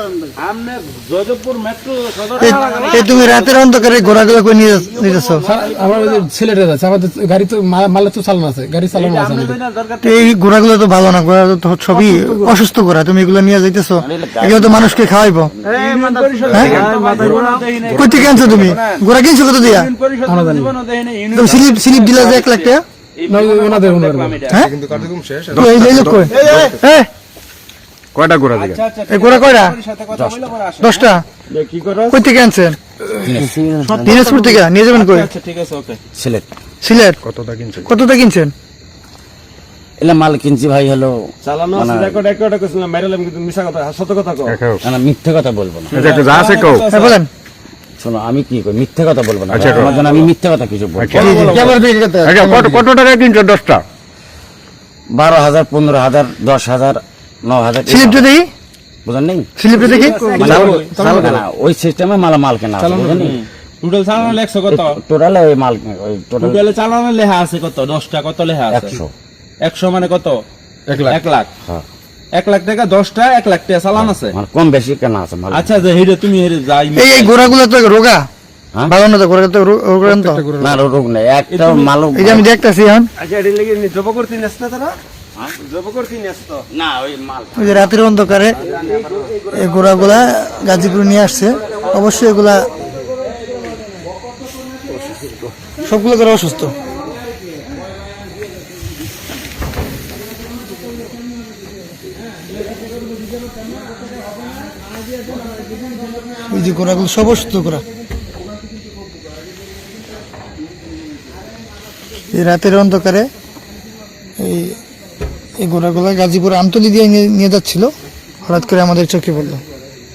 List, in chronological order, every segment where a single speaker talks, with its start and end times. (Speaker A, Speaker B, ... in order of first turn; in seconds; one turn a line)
Speaker A: 0.4-6.3
Speaker B: 2.4-5.5
Speaker C: 5.4-9.6
Speaker A: 8.9-10.3
Speaker B: 10.0-15.5
Speaker C: 11.9-12.6
Speaker D: 14.0-15.0
Speaker A: 15.6-19.0
Speaker D: 15.7-17.4
Speaker E: 16.5-18.8
Speaker F: 17.0-17.5
Speaker B: 17.9-19.9
Speaker A: 19.6-24.7
Speaker C: 20.3-20.7
Speaker B: 21.3-22.9
Speaker C: 23.3-24.6
Speaker E: 24.6-26.9
Speaker B: 25.5-27.1
Speaker D: 26.3-26.7
Speaker F: 26.4-26.7
Speaker E: 28.1-28.8
Speaker A: 28.6-31.1
Speaker B: 29.1-29.8
Speaker B: 30.8-31.2
Speaker F: 31.5-31.9
Speaker B: 32.1-32.8
Speaker D: 33.2-34.3
Speaker A: 33.9-36.0
Speaker B: 34.0-35.3
Speaker D: 36.2-36.5
Speaker B: 36.8-37.2
Speaker E: 37.2-37.9
Speaker B: 37.9-38.5
Speaker D: 40.0-42.2
Speaker F: 41.5-44.5
Speaker E: 44.4-44.8
Speaker D: 44.8-46.1
Speaker E: 45.9-46.9
Speaker A: 45.9-47.2
Speaker B: 46.9-47.3
Speaker D: 48.0-51.3
Speaker E: 49.5-50.3
Speaker A: 49.7-50.1
Speaker E: 51.0-53.8
Speaker B: 51.1-51.6
Speaker C: 51.2-52.9
Speaker D: 55.1-58.3
Speaker B: 57.9-58.5
Speaker D: 59.0-63.4
Speaker B: 59.6-60.2
Speaker A: 59.8-60.9
Speaker C: 60.1-61.4
Speaker A: 63.1-65.0
Speaker D: 64.7-66.7
Speaker A: 66.4-69.0
Speaker D: 68.7-69.1
Speaker A: 69.6-70.4
Speaker A: 70.9-71.5
Speaker A: 72.3-74.4
Speaker D: 73.9-75.7
Speaker A: 75.5-77.5
Speaker B: 76.9-78.3
Speaker B: 78.9-80.5
Speaker E: 80.4-80.8
Speaker D: 80.6-82.5
Speaker A: 81.5-81.9
Speaker B: 82.2-83.1
Speaker F: 83.2-85.0
Speaker F: 85.6-86.7
Speaker D: 86.7-87.8
Speaker B: 87.6-88.6
Speaker A: 88.7-90.2
Speaker B: 89.5-92.7
Speaker A: 91.3-92.3
Speaker B: 95.8-96.8
Speaker A: 105.6-105.9
Speaker B: 106.5-107.8
Speaker B: 112.3-113.3
Speaker B: 114.4-114.8
Speaker B: 115.6-119.6